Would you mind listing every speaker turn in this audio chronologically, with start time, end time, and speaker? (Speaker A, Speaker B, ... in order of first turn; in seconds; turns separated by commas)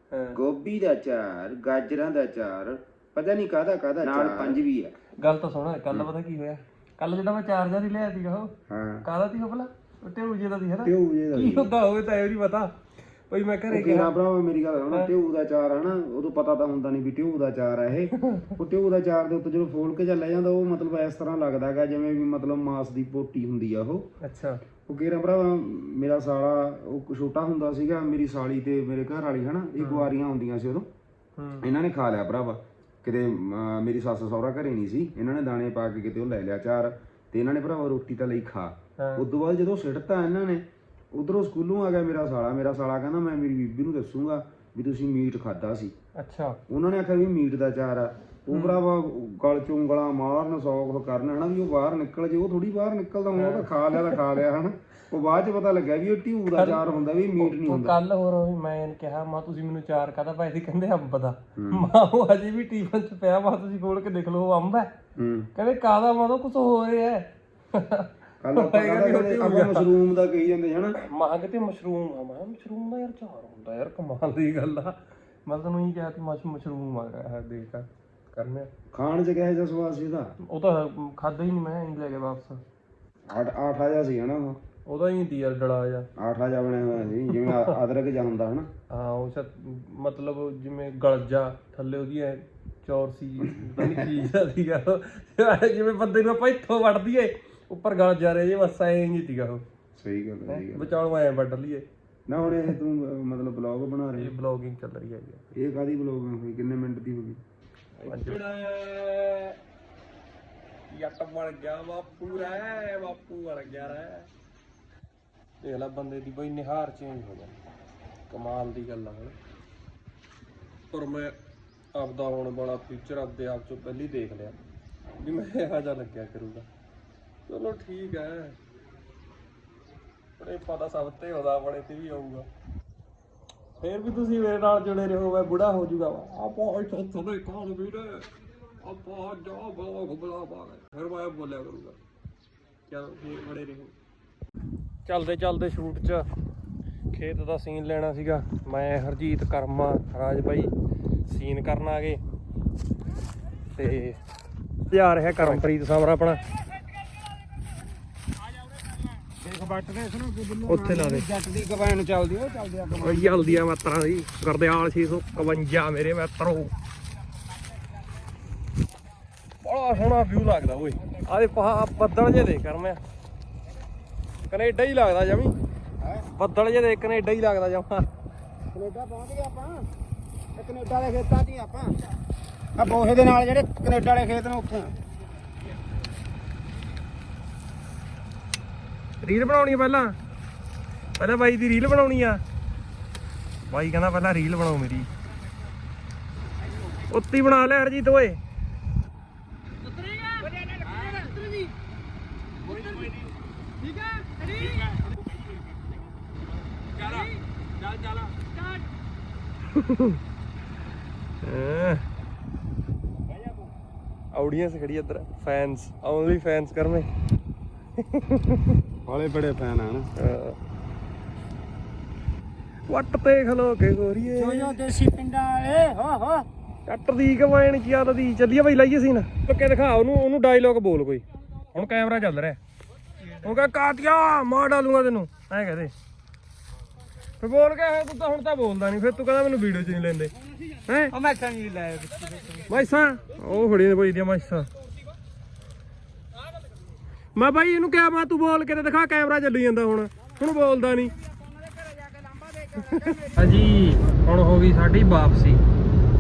Speaker A: 0.1-0.4, Speaker B: 0.3-4.9, Speaker A: 4.0-4.6, Speaker A: 5.2-12.7, Speaker B: 8.7-9.0, Speaker B: 10.8-11.7, Speaker A: 13.3-14.1, Speaker B: 13.7-24.0, Speaker A: 18.1-18.5, Speaker A: 24.2-24.6, Speaker B: 24.9-30.9, Speaker A: 29.8-30.1, Speaker A: 31.4-31.7, Speaker B: 31.6-45.9, Speaker A: 39.0-39.2, Speaker A: 46.2-46.6, Speaker B: 46.7-58.0, Speaker A: 48.5-48.8, Speaker A: 53.3-54.2, Speaker A: 56.5-64.9, Speaker B: 61.5-61.9, Speaker B: 65.2-65.5, Speaker A: 65.5-69.9, Speaker B: 68.4-71.0, Speaker A: 71.0-78.7, Speaker B: 78.9-80.3, Speaker A: 80.4-82.6, Speaker B: 83.3-84.6, Speaker A: 84.8-86.1, Speaker B: 86.2-88.7, Speaker A: 87.3-87.8, Speaker A: 88.9-99.6, Speaker B: 93.6-94.2, Speaker B: 100.0-100.9, Speaker A: 100.5-101.9, Speaker B: 102.3-104.3, Speaker A: 102.4-102.7, Speaker A: 104.2-105.4, Speaker B: 105.5-107.4, Speaker A: 108.0-109.6, Speaker A: 110.9-114.3, Speaker A: 115.6-117.5, Speaker A: 118.3-119.3, Speaker A: 120.9-121.3, Speaker A: 121.9-124.6, Speaker A: 125.2-126.7, Speaker A: 127.5-128.6, Speaker A: 130.4-132.5, Speaker A: 133.8-138.3, Speaker A: 138.8-142.0, Speaker A: 142.9-143.9, Speaker A: 145.1-146.3, Speaker A: 147.1-150.7, Speaker A: 151.3-152.2, Speaker A: 153.8-154.2, Speaker A: 154.9-156.4, Speaker B: 155.3-155.6, Speaker B: 159.3-163.6, Speaker A: 160.7-161.3, Speaker A: 163.0-166.7, Speaker A: 169.6-173.0, Speaker A: 174.5-175.5, Speaker A: 176.3-178.1, Speaker B: 178.7-179.9, Speaker B: 180.6-182.0, Speaker B: 182.8-184.9, Speaker A: 189.2-190.1, Speaker A: 191.2-192.4, Speaker A: 193.7-195.1, Speaker A: 197.1-198.4, Speaker C: 200.0-201.7, Speaker C: 202.7-203.1, Speaker C: 204.2-204.9, Speaker A: 206.9-207.3, Speaker A: 207.8-208.3, Speaker A: 209.7-210.2, Speaker A: 211.4-212.0, Speaker A: 214.3-217.1, Speaker A: 218.0-218.8, Speaker B: 219.0-220.1, Speaker A: 220.2-220.6, Speaker A: 222.9-224.8, Speaker C: 224.4-226.4, Speaker A: 226.8-232.6, Speaker A: 233.3-235.9, Speaker A: 237.4-240.3, Speaker A: 240.8-241.1, Speaker B: 241.2-242.6, Speaker A: 242.7-244.7, Speaker A: 247.3-251.1, Speaker B: 252.1-252.4, Speaker A: 252.7-255.6